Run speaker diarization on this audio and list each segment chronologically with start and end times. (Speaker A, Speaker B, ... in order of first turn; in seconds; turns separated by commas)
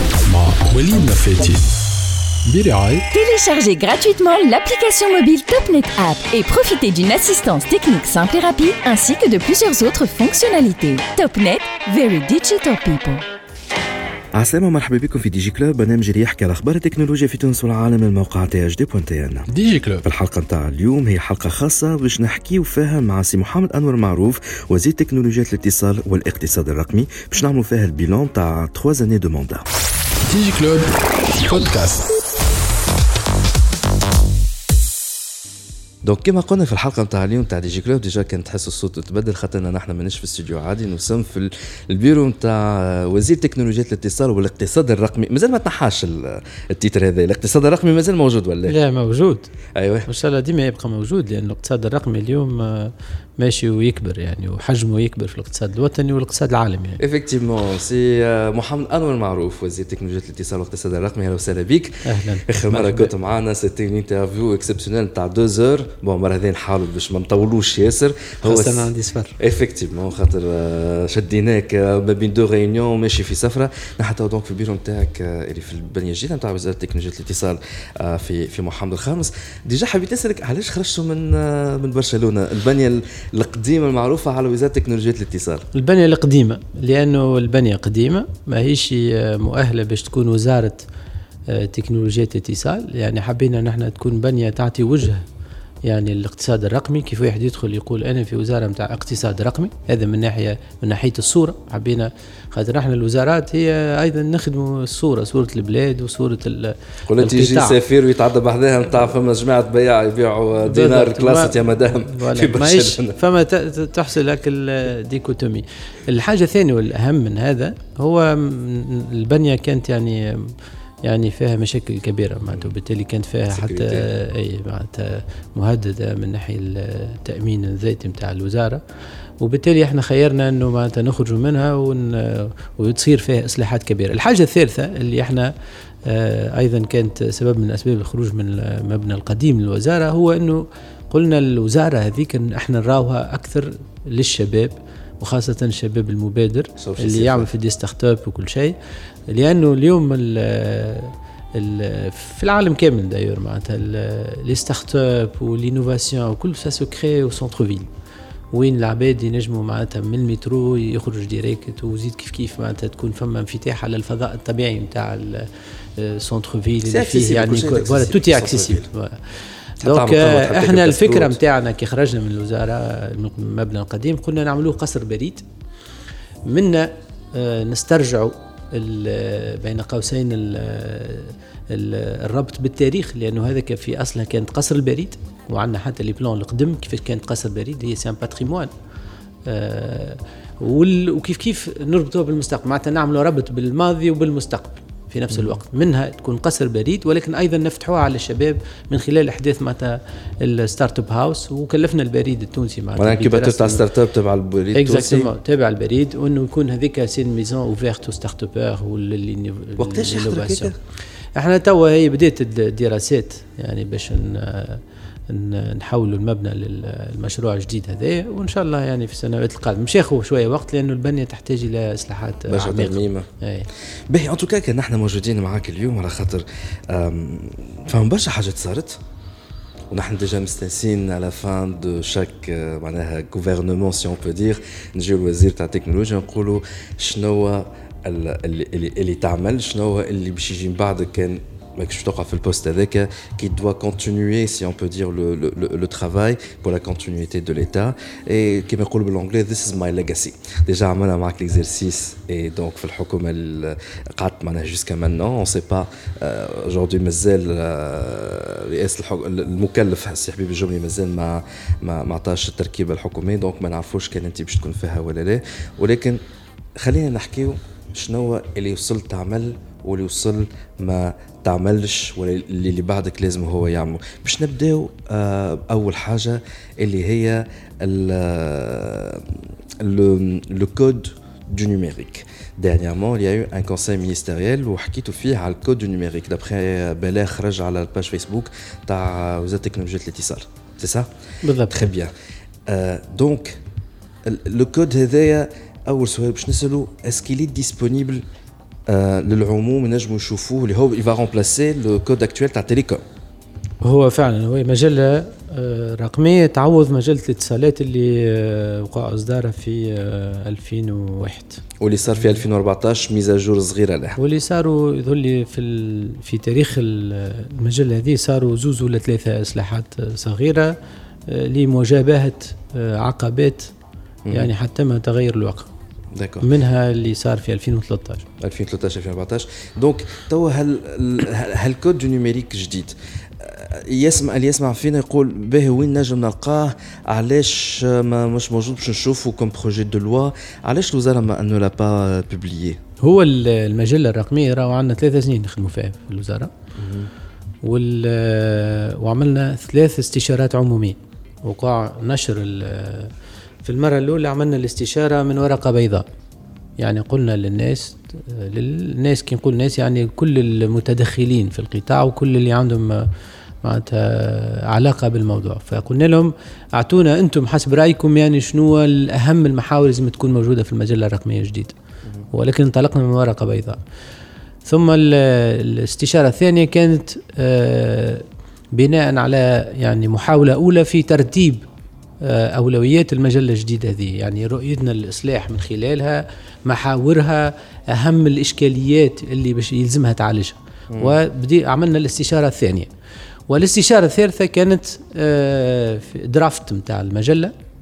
Speaker A: 0.2-1.7, Speaker A: 2.5-3.0, Speaker B: 3.1-13.2, Speaker C: 14.3-19.5, Speaker A: 19.5-20.1, Speaker C: 20.0-29.7, Speaker A: 30.2-32.1, Speaker C: 36.0-48.7, Speaker D: 48.7-49.5, Speaker C: 49.8-50.1, Speaker D: 50.1-57.0, Speaker C: 57.0-85.7, Speaker D: 62.0-63.1, Speaker D: 68.4-69.4, Speaker D: 85.7-90.9, Speaker D: 91.5-95.2, Speaker D: 95.9-107.8, Speaker C: 107.1-113.2, Speaker D: 110.7-128.8, Speaker C: 123.5-124.1, Speaker D: 129.4-135.5, Speaker D: 136.1-148.7, Speaker C: 146.8-147.5, Speaker D: 149.3-157.9, Speaker D: 158.5-175.4, Speaker C: 166.9-168.9, Speaker C: 169.8-171.4, Speaker D: 176.5-188.7, Speaker D: 189.5-203.9, Speaker C: 203.0-205.3, Speaker D: 204.7-210.7, Speaker C: 209.8-210.8, Speaker D: 211.4-223.7, Speaker C: 222.5-223.3, Speaker C: 224.1-229.0, Speaker C: 229.9-266.2, Speaker C: 266.8-291.1, Speaker D: 291.4-291.9, Speaker C: 291.7-292.1, Speaker C: 292.7-293.6, Speaker C: 294.3-298.2, Speaker C: 298.9-303.0, Speaker D: 303.8-312.4, Speaker C: 311.8-314.2, Speaker D: 314.2-320.8, Speaker D: 321.3-323.7, Speaker D: 324.3-325.7, Speaker C: 326.1-326.5, Speaker D: 326.4-328.2, Speaker C: 328.4-342.8, Speaker D: 343.0-346.5, Speaker C: 346.8-347.1, Speaker D: 347.6-353.1, Speaker D: 353.6-356.1, Speaker D: 356.8-363.1, Speaker D: 363.6-371.8, Speaker D: 372.3-373.8, Speaker D: 374.7-381.6, Speaker D: 382.2-392.9, Speaker C: 390.9-391.2, Speaker D: 393.5-397.5